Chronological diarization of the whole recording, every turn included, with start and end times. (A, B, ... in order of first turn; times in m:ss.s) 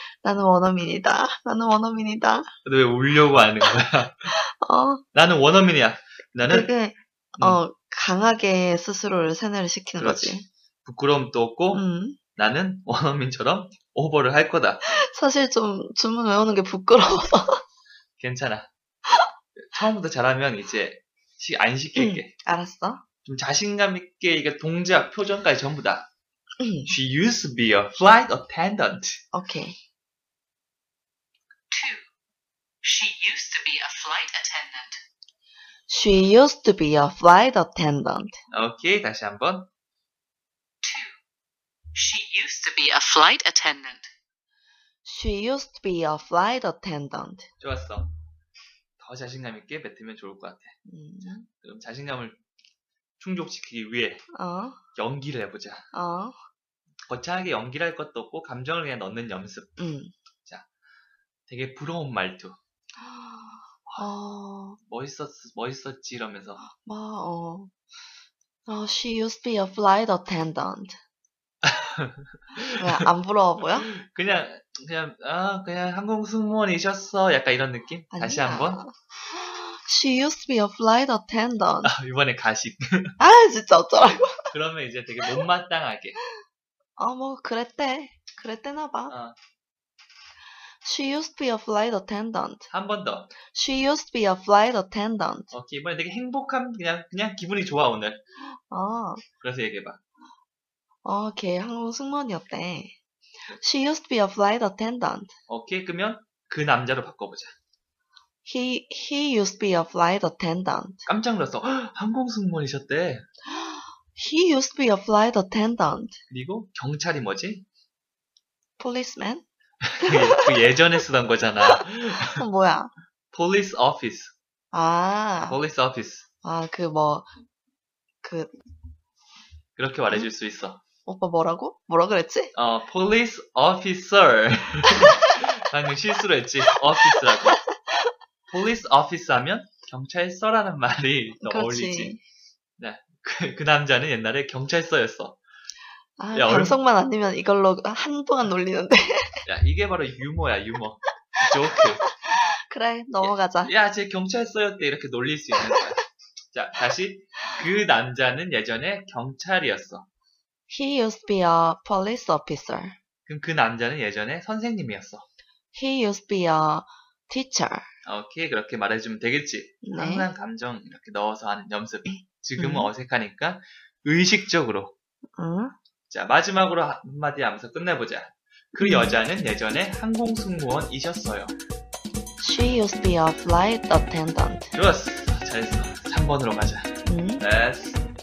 0:00.2-0:02.5 A
0:02.6-0:04.3 B
0:04.3-0:05.0 A
0:05.1-0:06.7 B
0:06.5-0:10.4 A
0:10.0-0:14.8 B
0:11.7-0:12.2 A
0:14.9-0:17.6 A
0:18.2-0:18.7 B
0:19.6-0:22.3 B
0:22.0-0:23.0 A
0:23.2-0:26.1 B
0:26.6-0:26.9 A
0:26.8-0:29.2 B
0:29.3-0:29.8 A
0:31.7-0:32.0 C
0:32.8-0:35.0 C
0:35.9-0:38.4 A
0:38.5-0:39.7 B
0:40.8-0:41.2 C
0:41.9-0:44.1 C
0:45.0-0:47.5 A
0:47.6-0:48.1 B
0:49.0-0:52.4 B
0:50.8-0:51.4 A
0:53.2-0:54.2 B
0:54.3-0:54.8 A
0:54.9-0:55.9 B
0:55.9-0:56.4 A
0:57.1-0:59.7 B
0:59.8-1:00.1 A
1:01.5-1:02.6 B
1:03.0-1:04.8 A
1:04.8-1:06.6 B
1:06.6-1:07.7 A
1:08.7-1:11.0 A
1:11.6-1:13.0 B
1:12.8-1:13.9 A
1:13.9-1:18.8 B
1:18.1-1:21.9 A
1:21.8-1:23.1 B
1:23.2-1:24.5 A
1:24.5-1:26.2 B
1:27.0-1:29.1 A
1:29.1-1:29.3 B
1:30.8-1:32.7 A
1:32.7-1:33.3 B
1:33.5-1:35.5 A
1:35.5-1:38.2 B
1:38.5-1:39.2 A
1:39.4-1:40.0 B
1:41.0-1:43.0 A
1:43.6-1:45.3 A
1:45.5-1:47.5 B
1:48.4-1:51.1 A
1:51.0-1:53.2 B
1:53.5-1:56.2 A
1:56.3-1:57.6 B
1:58.8-1:59.4 A
1:59.9-2:02.4 B
2:00.0-2:00.6 A
2:01.6-2:02.9 A
2:03.3-2:04.3 B
2:04.7-2:05.6 A
2:05.5-2:06.3 B
2:06.4-2:07.3 A
2:08.2-2:08.5 A
2:09.8-2:10.8 B
2:11.0-2:12.5 A
2:12.5-2:17.6 B
2:18.5-2:22.1 B
2:21.4-2:22.2 A
2:22.8-2:25.4 B
2:26.2-2:29.4 A
2:26.3-2:26.8 B
2:29.4-2:32.0 B
2:32.0-2:33.7 A
2:33.2-2:40.1 B
2:40.7-2:43.0 A
2:43.3-2:45.2 B
2:45.7-2:47.8 A
2:48.0-2:54.9 B
2:49.8-2:50.3 A
2:52.0-2:52.9 A
2:55.4-2:55.7 A
2:56.1-3:01.5 B
2:58.8-2:59.2 A
3:02.4-3:04.7 A
3:04.7-3:08.0 B
3:07.0-3:07.4 A